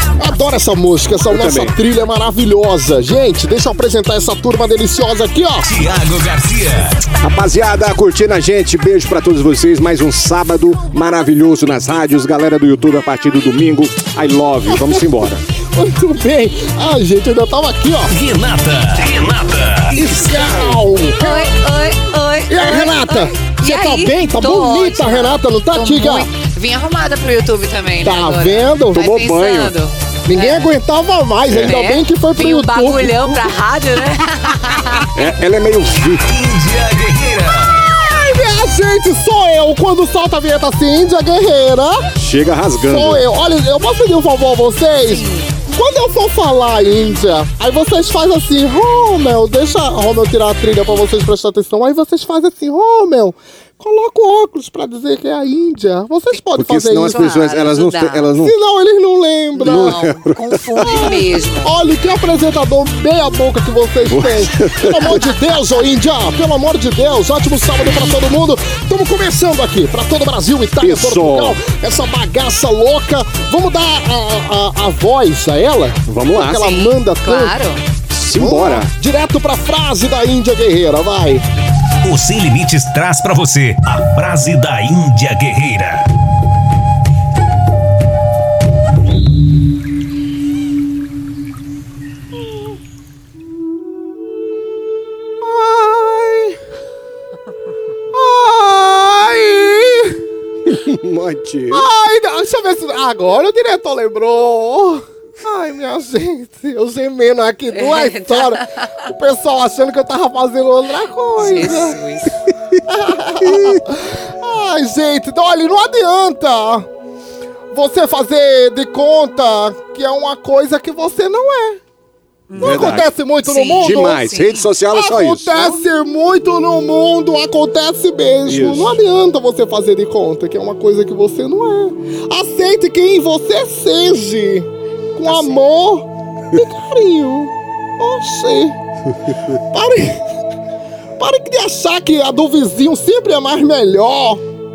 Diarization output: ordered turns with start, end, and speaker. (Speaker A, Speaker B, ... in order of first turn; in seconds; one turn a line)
Speaker A: 0.2-5.7
Speaker B: 1.3-1.7
Speaker C: 5.6-7.0
Speaker B: 7.2-15.4
Speaker A: 14.7-15.0
Speaker A: 15.7-18.1
Speaker C: 18.1-20.7
Speaker A: 19.9-21.6
Speaker D: 21.2-30.7
Speaker A: 22.5-26.3
Speaker A: 28.0-29.0
Speaker B: 28.9-29.7
Speaker A: 30.3-33.5
Speaker B: 31.5-31.8
Speaker D: 31.6-35.1
Speaker B: 35.1-36.3
Speaker C: 36.2-37.8
Speaker A: 37.9-42.1
Speaker B: 42.2-43.2
Speaker A: 42.9-57.2
Speaker D: 45.0-45.6
Speaker B: 56.5-58.5
Speaker D: 57.0-58.3
Speaker A: 58.4-60.0
Speaker D: 59.5-61.7
Speaker B: 59.6-61.1
Speaker A: 60.8-77.5
Speaker B: 64.0-65.2
Speaker B: 70.8-71.6
Speaker B: 76.1-76.8
Speaker D: 76.5-77.8
Speaker B: 78.1-78.9
Speaker A: 78.3-81.5
Speaker C: 82.0-86.1
Speaker A: 95.4-96.6
Speaker A: 98.1-100.2
Speaker B: 100.7-101.9
Speaker A: 101.7-112.0
Speaker D: 107.7-108.9
Speaker D: 111.3-112.3
Speaker A: 112.9-116.9
Speaker A: 117.7-121.8
Speaker D: 122.5-124.7
Speaker A: 122.5-124.2
Speaker B: 122.6-123.1
Speaker B: 123.8-125.8
Speaker A: 124.9-138.8
Speaker B: 128.4-129.0
Speaker A: 139.7-140.2
Speaker A: 141.2-144.4